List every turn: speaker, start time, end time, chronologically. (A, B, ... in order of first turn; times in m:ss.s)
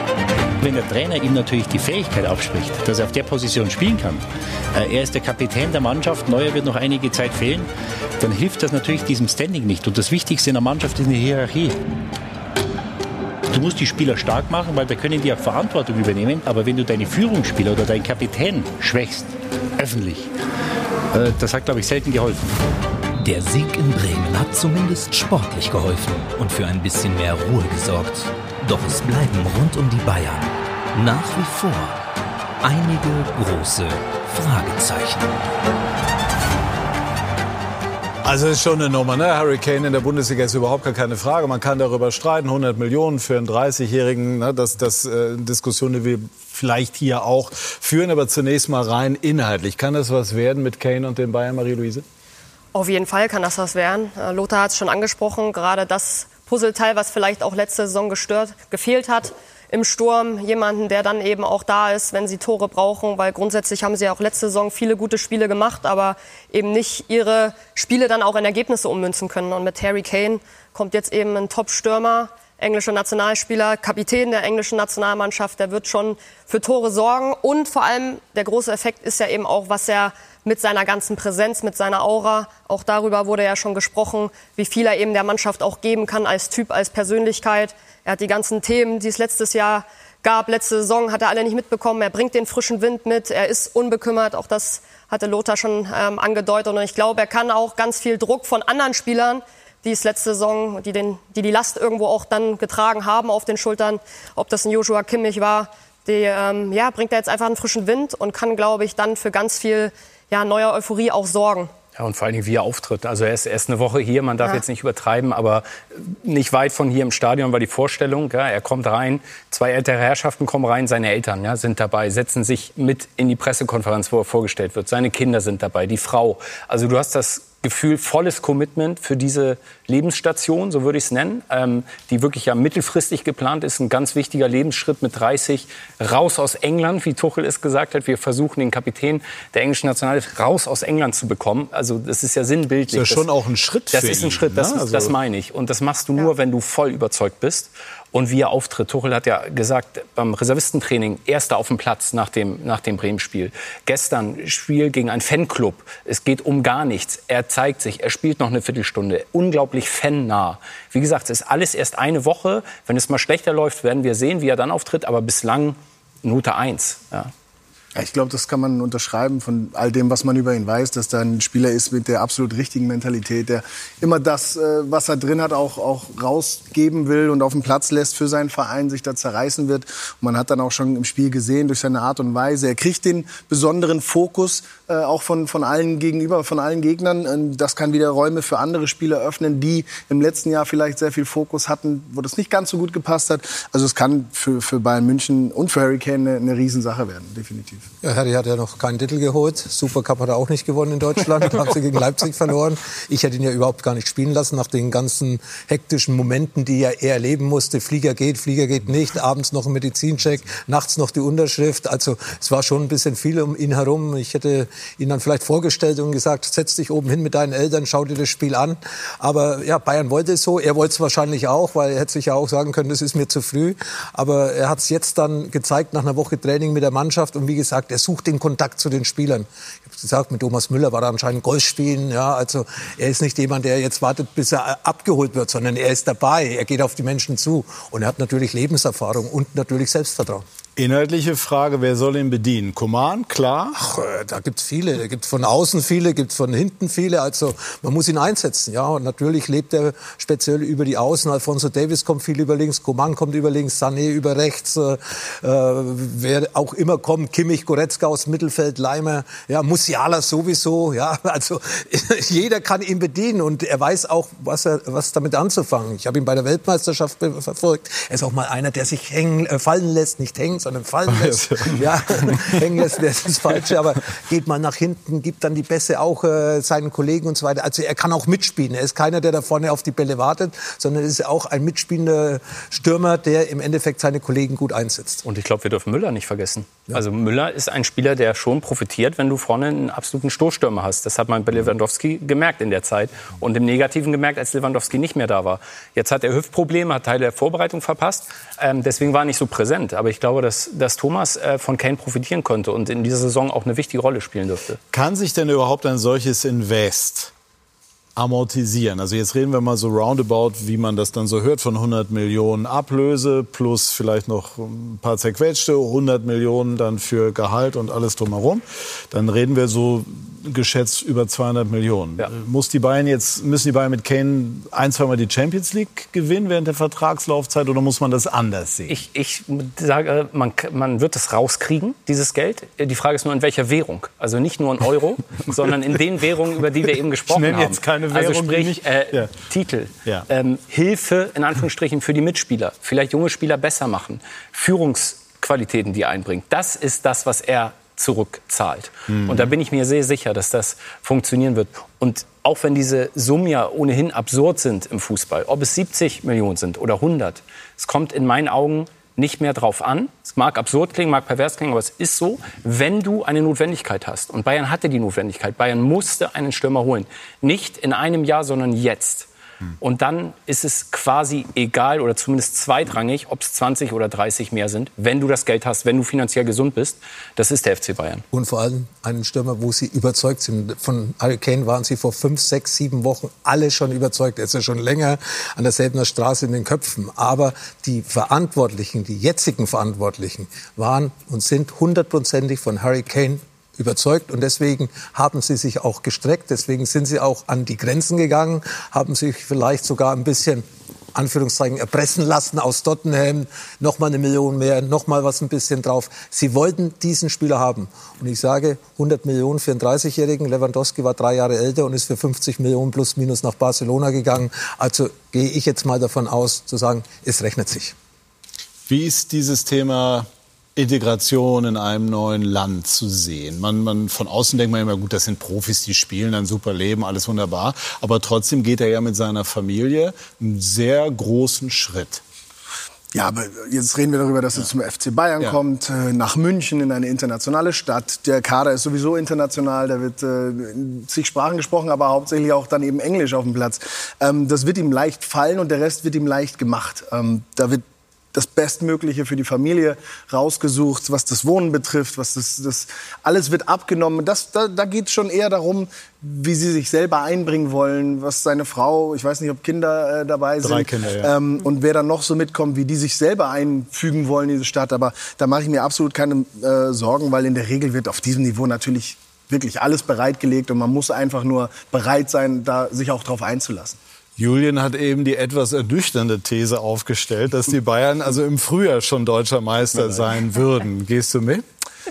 0:00.6-0:07.7 A
0:08.2-0:11.8 A
0:13.5-0:20.3 A
0:21.1-0:22.6 A
0:23.2-0:32.0 B
0:32.6-0:35.4 B
0:38.2-0:52.0 C
0:52.7-1:51.7 D
1:52.0-2:23.3 E
2:22.9-2:25.2 C
2:23.9-2:47.3 E
2:48.0-3:17.9 F
3:18.0-4:00.4 G
4:00.8-4:03.8 C
4:03.8-4:45.2 G
4:31.1-4:32.6 C
4:45.2-5:04.8 E
5:04.9-5:07.3 C
5:08.2-5:28.9 C
5:28.9-6:09.3 E
5:37.3-5:39.3 C
5:49.1-5:49.5 C
6:09.8-6:18.3 E
6:18.3-6:58.0 G
6:58.9-7:12.2 C
7:13.1-7:27.8 F
7:28.3-7:54.0 F
7:40.6-7:41.3 C
7:54.4-8:01.6 C
8:00.0-8:00.3 F